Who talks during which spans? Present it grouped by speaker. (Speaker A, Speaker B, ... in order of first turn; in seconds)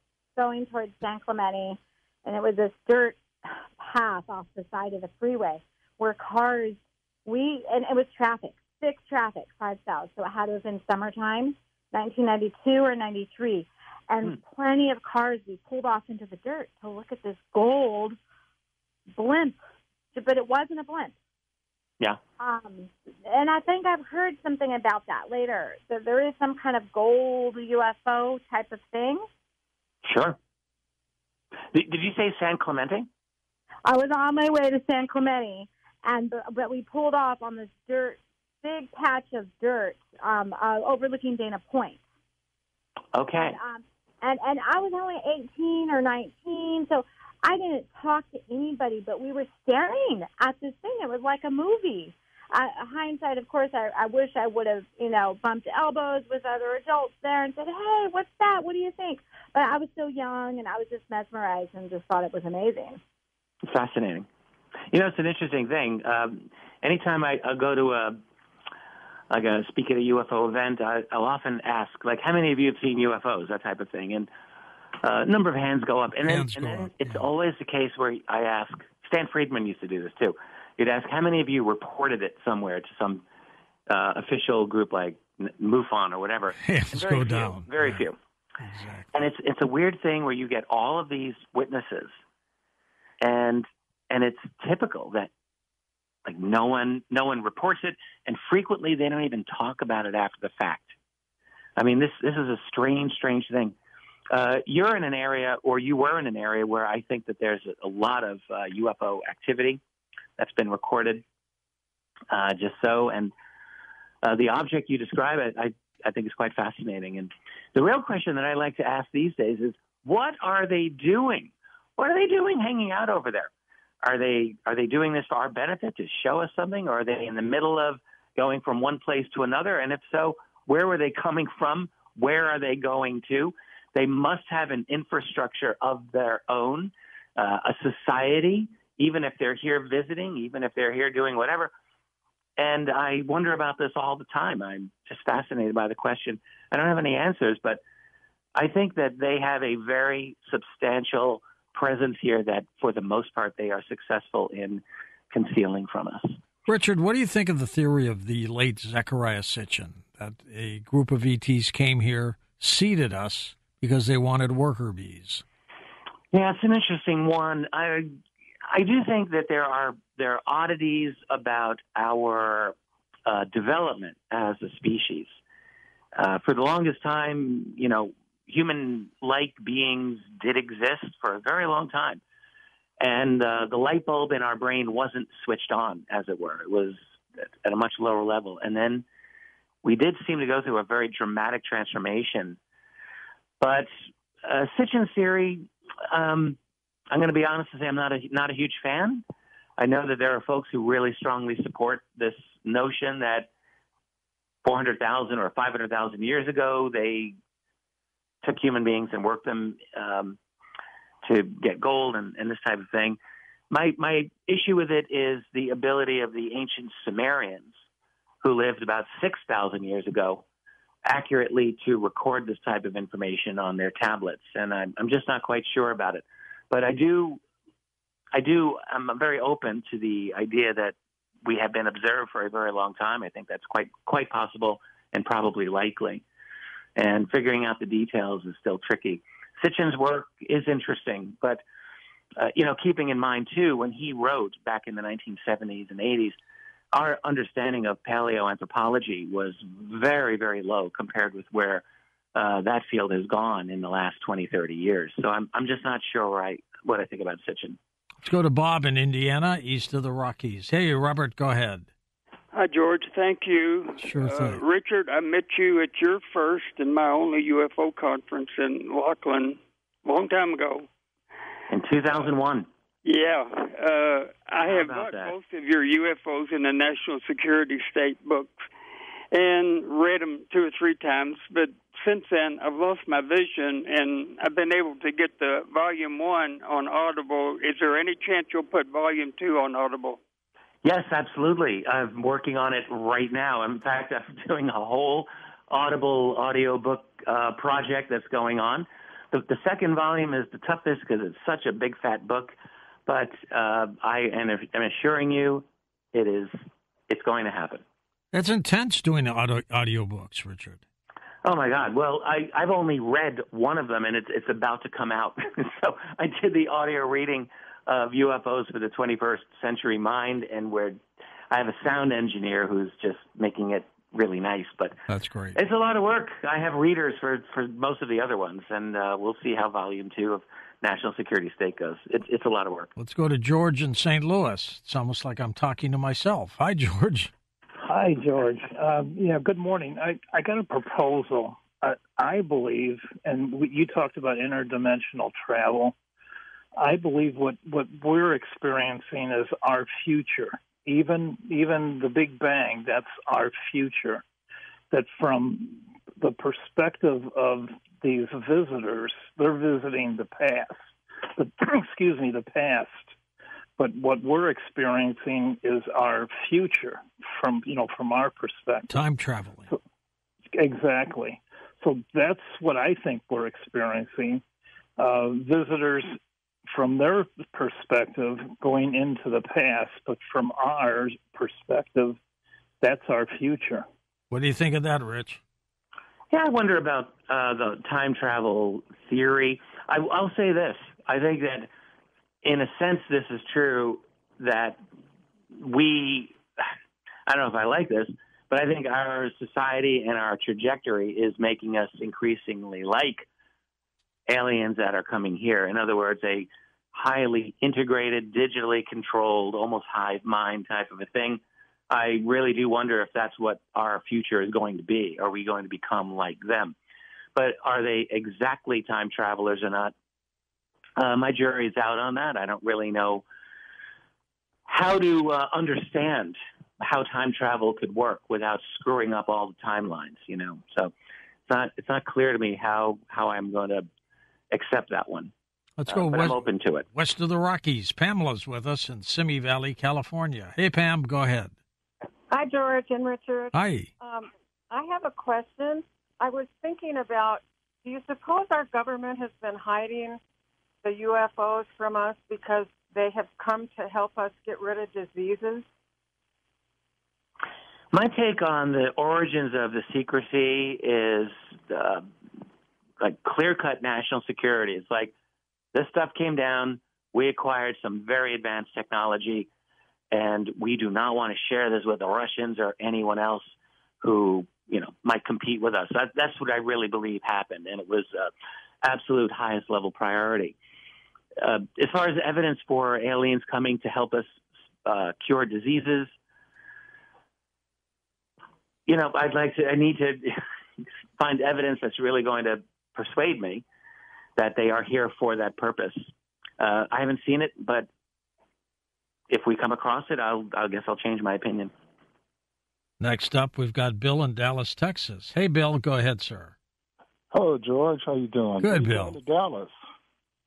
Speaker A: 0.3-18.2, 19.1-19.6, 20.1-21.1, 22.4-29.3, 33.9-42.0, 43.4-63.0
Speaker B: 30.0-30.4, 31.7-33.1, 43.1-43.6, 63.7-64.2, 64.9-68.2, 69.3-74.3, 75.0-83.2, 83.9-88.2, 89.1-92.2, 93.2-95.3, 96.2-100.9, 101.8-103.8, 104.3-109.8, 110.4-111.2, 112.3-113.3, 114.2-123.5, 124.0-141.7, 142.6-147.8, 148.5-156.4, 166.3-168.1, 168.7-172.7, 173.2-175.3, 176.2-182.2, 183.0-189.0, 189.8-192.6, 193.6-193.9, 194.4-196.6, 197.1-199.2, 199.8-203.5, 204.6-207.3, 208.4-210.4, 211.2-213.2, 213.7-217.8, 218.4-220.4, 221.0-227.4, 228.3-236.2, 236.9-241.6, 242.4-246.3, 246.9-251.8, 252.3-257.8, 271.7-272.7, 274.6-275.3, 290.8-302.5, 303.1-307.8, 311.4-321.0, 321.5-324.9, 325.5-332.9, 386.3-391.7, 392.4-394.8, 395.5-396.7, 397.3-403.2, 404.3-416.7, 417.4-419.9, 421.0-423.2, 424.7-430.9, 431.5-433.9, 434.5-435.3, 435.9-436.8, 457.9-462.1, 463.0-465.1, 465.7-469.5, 470.1-478.3, 478.8-480.6, 481.4-486.1, 488.9-490.4, 491.2-493.6, 494.4-497.9, 499.3-501.7
Speaker C: 76.2-77.2, 86.6-88.0, 88.6-89.1, 156.7-165.4, 258.2-261.9, 264.0-264.6, 308.3-310.8, 325.1-325.6, 332.9-337.3, 368.9-369.7, 384.3-385.4, 435.8-441.5, 443.5-443.9, 503.0-506.5, 508.6-509.2
Speaker D: 262.5-270.9, 273.0-278.5, 279.3-290.2
Speaker E: 337.8-345.9, 346.8-354.2, 354.9-363.1, 363.8-369.0, 370.5-374.4, 375.0-382.2, 382.8-383.9
Speaker F: 442.3-450.2, 450.8-455.6
Speaker G: 507.3-509.8